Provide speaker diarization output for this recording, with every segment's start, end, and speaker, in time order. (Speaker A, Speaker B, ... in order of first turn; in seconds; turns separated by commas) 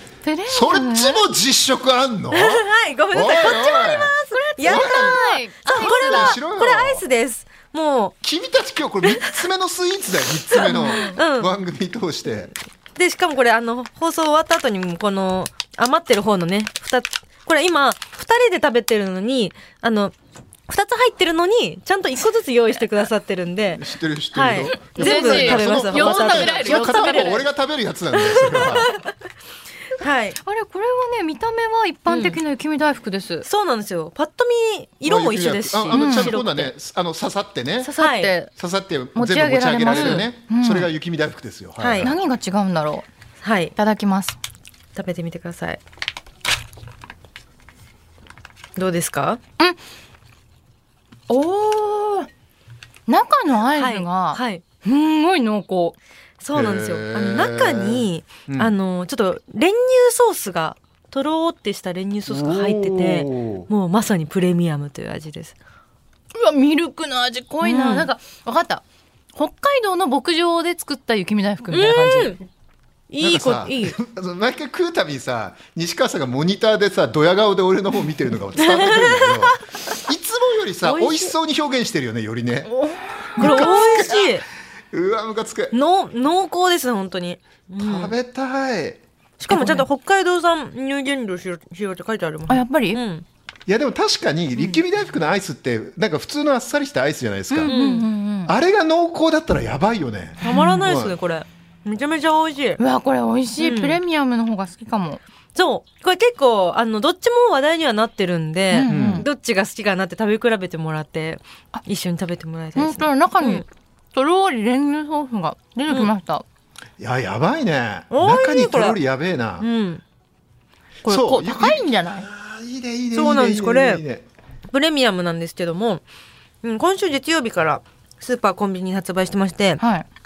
Speaker A: 0.2-1.2, Speaker B: 0.5-7.0, Speaker C: 2.3-8.1, Speaker A: 4.3-6.4, Speaker B: 8.2-12.5, Speaker C: 9.0-9.4, Speaker C: 10.5-11.5, Speaker A: 10.5-11.2, Speaker C: 12.9-20.1, Speaker C: 20.7-27.4, Speaker B: 23.8-28.9, Speaker A: 24.7-27.4, Speaker C: 28.2-29.0, Speaker C: 29.9-30.4, Speaker A: 30.4-33.5, Speaker C: 32.1-32.4, Speaker C: 33.4-36.7, Speaker B: 35.0-37.9, Speaker A: 35.9-36.4, Speaker A: 37.8-38.5, Speaker C: 38.0-38.3, Speaker B: 38.5-42.1, Speaker A: 39.1-40.9, Speaker C: 39.9-40.3, Speaker C: 41.8-42.1, Speaker A: 42.0-43.1, Speaker C: 43.4-43.7, Speaker A: 43.8-44.4, Speaker C: 44.9-45.8, Speaker C: 48.8-49.4, Speaker A: 51.3-52.3, Speaker A: 53.1-56.0, Speaker C: 53.8-54.6, Speaker C: 56.4-65.5, Speaker B: 56.5-58.7, Speaker B: 62.3-63.7, Speaker A: 66.3-68.8, Speaker C: 67.6-68.1, Speaker A: 69.3-72.4, Speaker C: 71.7-72.4, Speaker C: 73.1-74.0, Speaker B: 73.2-82.7, Speaker C: 78.6-79.7, Speaker C: 80.8-81.3, Speaker A: 82.7-84.1, Speaker B: 83.3-84.3, Speaker C: 83.4-84.4, Speaker B: 84.9-85.7, Speaker C: 85.7-88.2, Speaker B: 87.8-89.0, Speaker C: 89.4-93.2, Speaker A: 89.5-89.9, Speaker A: 92.5-93.0, Speaker B: 93.7-97.7, Speaker A: 97.5-98.5, Speaker C: 97.7-98.0, Speaker B: 98.5-101.1, Speaker C: 100.4-102.8, Speaker A: 100.4-100.8, Speaker A: 102.8-105.2, Speaker C: 103.6-104.0, Speaker C: 105.5-113.6, Speaker A: 108.7-109.2, Speaker B: 108.9-109.2, Speaker A: 112.8-116.4, Speaker B: 117.0-119.7, Speaker C: 118.1-119.0, Speaker C: 119.6-120.0, Speaker A: 121.0-122.3, Speaker B: 121.0-124.2, Speaker C: 123.1-124.0, Speaker C: 124.7-126.0, Speaker C: 126.6-129.8, Speaker A: 129.8-130.1